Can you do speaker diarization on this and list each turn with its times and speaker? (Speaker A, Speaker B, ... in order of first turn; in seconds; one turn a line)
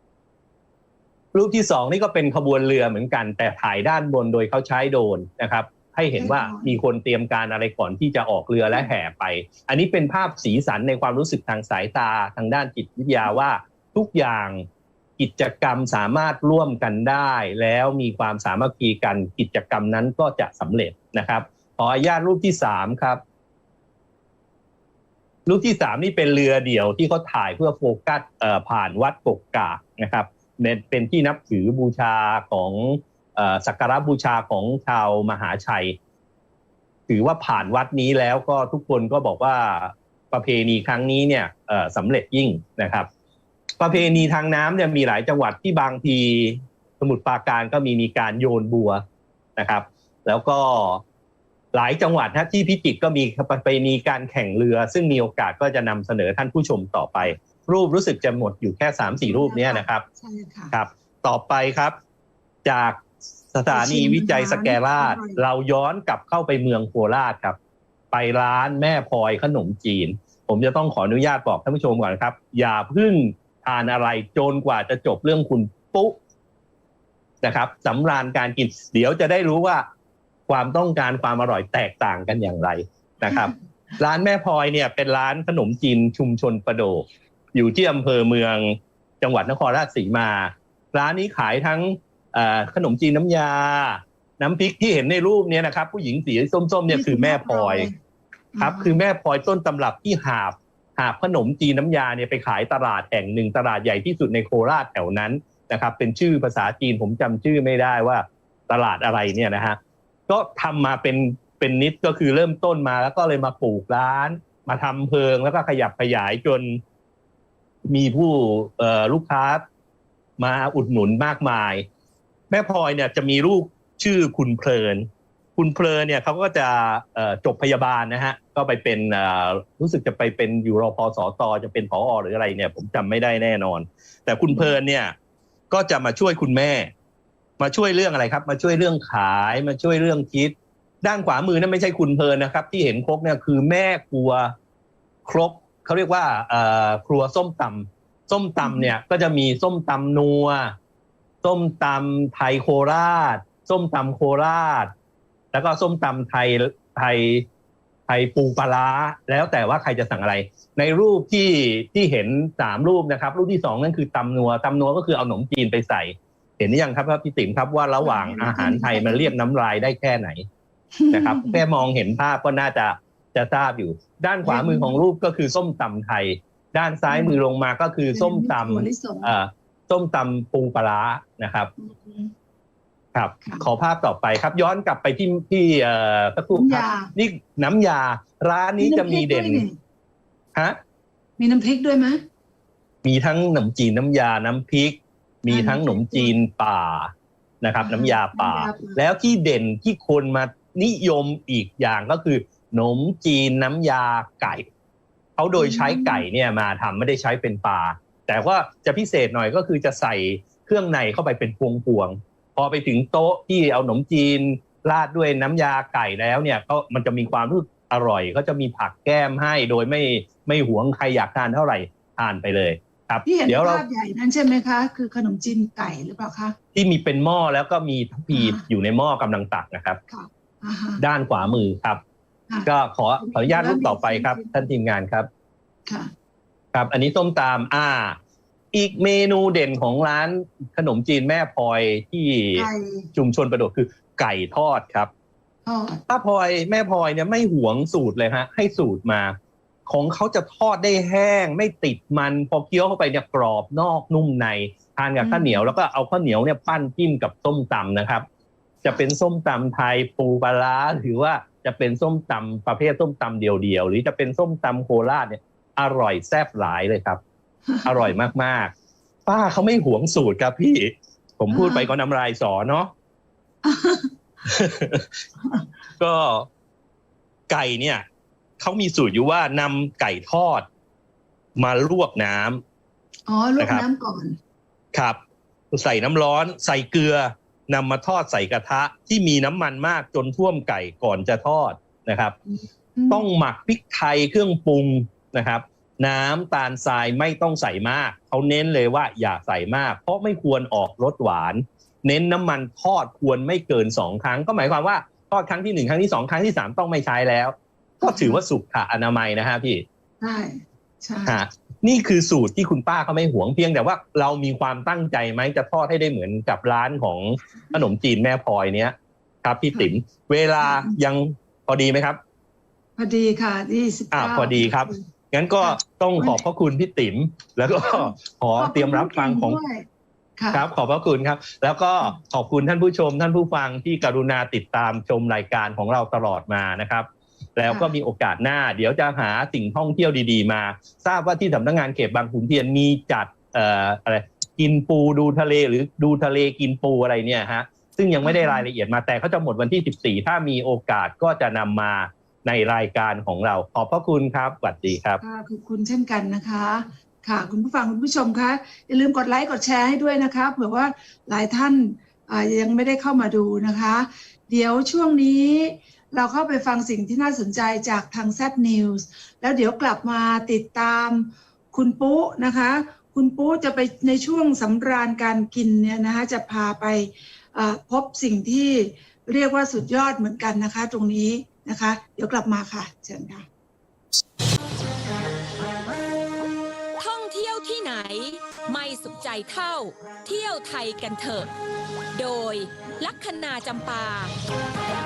Speaker A: 1.3-14.7
Speaker B: 6.2-6.8
Speaker A: 15.2-23.2
Speaker A: 25.5-36.0
Speaker A: 37.1-43.1
Speaker A: 43.8-49.0
Speaker A: 49.6-51.0
Speaker A: 51.7-60.0
Speaker B: 59.2-60.8
Speaker A: 60.7-62.0
Speaker A: 62.6-63.0
Speaker A: 63.5-67.6
Speaker B: 63.7-65.4
Speaker A: 68.1-76.2
Speaker A: 77.4-79.8
Speaker A: 80.5-97.9
Speaker B: 96.9-98.0
Speaker B: 98.5-99.0
Speaker A: 98.6-116.8
Speaker A: 117.9-119.6
Speaker A: 120.4-121.9
Speaker A: 122.5-135.1
Speaker B: 134.5-134.8
Speaker A: 135.7-136.9
Speaker A: 137.6-144.5
Speaker A: 145.2-150.8
Speaker B: 148.6-148.9
Speaker A: 151.4-154.9
Speaker A: 155.5-157.4
Speaker A: 158.1-170.4
Speaker B: 168.0-169.4
Speaker B: 171.0-171.6
Speaker A: 171.1-181.7
Speaker B: 174.4-175.0
Speaker B: 177.1-177.4
Speaker B: 178.1-179.3
Speaker B: 181.8-182.3
Speaker A: 183.2-189.7
Speaker B: 183.4-183.7
Speaker B: 186.5-187.1
Speaker B: 188.8-189.8
Speaker B: 191.4-192.2
Speaker A: 193.0-204.7
Speaker B: 195.5-196.3
Speaker B: 197.8-199.0
Speaker A: 205.4-223.8
Speaker B: 205.6-206.3
Speaker B: 223.3-226.6
Speaker A: 226.8-230.0
Speaker B: 228.3-228.6
Speaker B: 230.1-231.6
Speaker A: 231.0-232.0
Speaker A: 232.7-235.3
Speaker B: 233.2-234.6
Speaker B: 235.9-236.1
Speaker A: 236.7-238.2
Speaker A: 238.7-245.1
Speaker B: 242.6-243.1
Speaker B: 245.7-246.0
Speaker A: 246.1-258.2
Speaker B: 255.2-255.7
Speaker A: 258.8-267.2
Speaker B: 267.7-268.1
Speaker A: 267.9-268.7
Speaker A: 269.3-272.9
Speaker B: 271.5-271.9
Speaker B: 273.6-274.1
Speaker A: 274.5-275.1
Speaker A: 276.0-276.5
Speaker A: 277.5-278.0
Speaker A: 278.6-280.7
Speaker A: 281.6-282.6
Speaker B: 283.3-284.4
Speaker A: 283.6-283.9
Speaker A: 284.9-285.2
Speaker A: 285.7-292.4
Speaker B: 292.5-293.3
Speaker A: 293.1-309.8
Speaker B: 308.0-308.4
Speaker B: 310.2-311.4
Speaker A: 311.3-322.2
Speaker B: 320.6-321.0
Speaker B: 323.0-325.0
Speaker A: 324.1-329.6
Speaker B: 325.6-326.4
Speaker B: 327.8-329.9
Speaker B: 330.4-330.7
Speaker A: 330.5-355.2
Speaker B: 337.7-337.9
Speaker B: 348.2-348.6
Speaker B: 355.2-383.5
Speaker C: 387.0-391.5
Speaker C: 392.1-394.3